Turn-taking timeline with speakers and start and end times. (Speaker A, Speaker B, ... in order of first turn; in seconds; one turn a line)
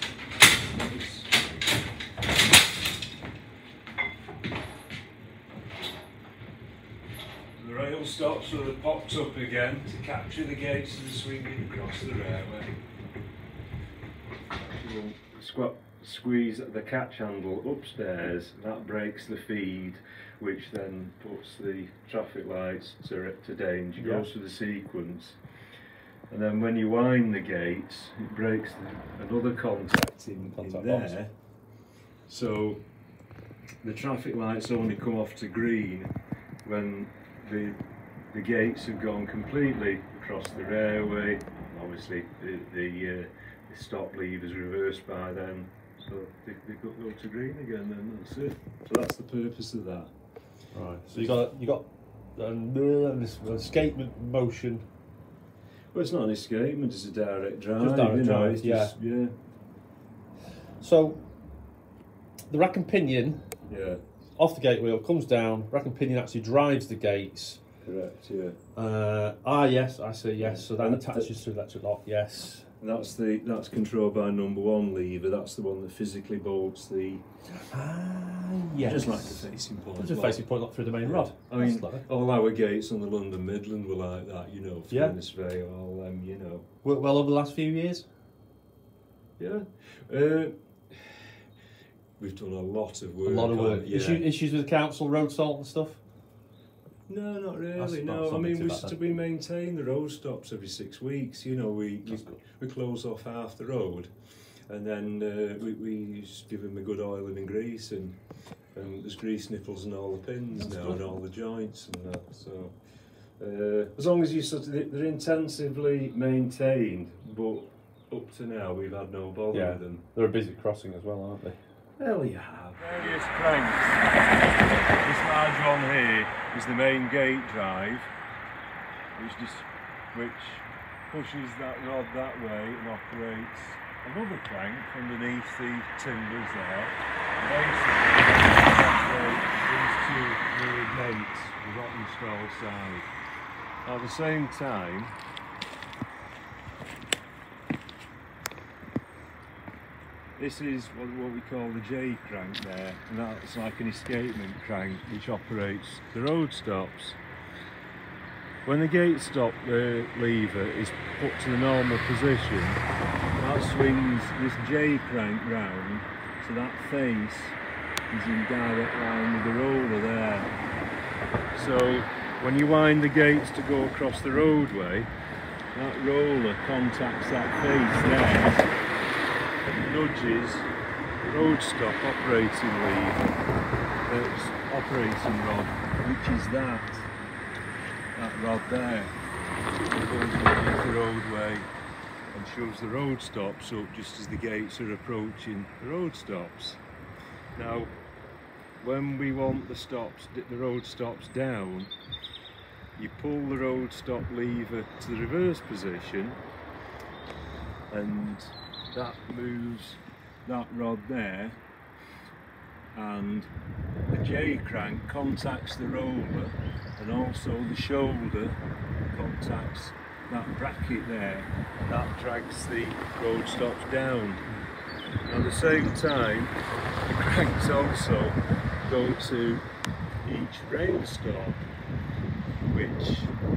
Speaker A: 0.7-1.4
Speaker A: 7.6-12.7
Speaker A: 14.7-25.4
Speaker B: 24.0-24.3
Speaker A: 26.3-31.3
Speaker B: 30.5-31.1
Speaker A: 32.3-32.8
Speaker A: 33.8-36.1
Speaker A: 36.6-37.8
Speaker A: 38.3-50.1
Speaker B: 50.7-54.8
Speaker A: 51.1-51.4
Speaker A: 55.9-59.3
Speaker B: 57.8-58.9
Speaker B: 60.8-61.2
Speaker B: 62.5-63.5
Speaker A: 63.7-64.0
Speaker B: 64.4-67.6
Speaker A: 67.8-68.6
Speaker B: 68.8-72.7
Speaker A: 70.4-71.3
Speaker A: 72.8-77.2
Speaker B: 77.7-79.4
Speaker A: 78.8-80.5
Speaker B: 80.0-82.0
Speaker A: 81.0-86.6
Speaker B: 84.9-85.2
Speaker B: 86.8-88.0
Speaker A: 89.4-91.3
Speaker A: 92.2-94.3
Speaker B: 93.2-96.0
Speaker A: 97.1-104.1
Speaker B: 97.8-99.0
Speaker B: 102.0-102.4
Speaker A: 104.7-108.2
Speaker A: 108.7-112.7
Speaker B: 110.5-111.0
Speaker A: 113.4-120.0
Speaker B: 119.5-121.6
Speaker A: 122.0-124.0
Speaker A: 124.7-128.1
Speaker A: 129.2-143.1
Speaker A: 143.8-145.1
Speaker A: 150.4-157.2
Speaker A: 158.6-162.8
Speaker A: 163.4-167.6
Speaker A: 168.1-170.5
Speaker A: 171.5-175.1
Speaker A: 175.7-178.7
Speaker A: 179.7-180.7
Speaker A: 181.2-183.2
Speaker A: 184.1-187.1
Speaker A: 188.2-189.2
Speaker A: 189.9-191.7
Speaker A: 192.3-196.8
Speaker A: 197.6-197.9
Speaker A: 198.8-201.9
Speaker A: 203.0-206.4
Speaker A: 207.9-211.6
Speaker A: 212.9-213.5
Speaker A: 214.1-218.6
Speaker A: 219.1-224.4
Speaker A: 225.3-226.5
Speaker A: 227.1-229.6
Speaker A: 230.2-231.6
Speaker A: 232.7-233.3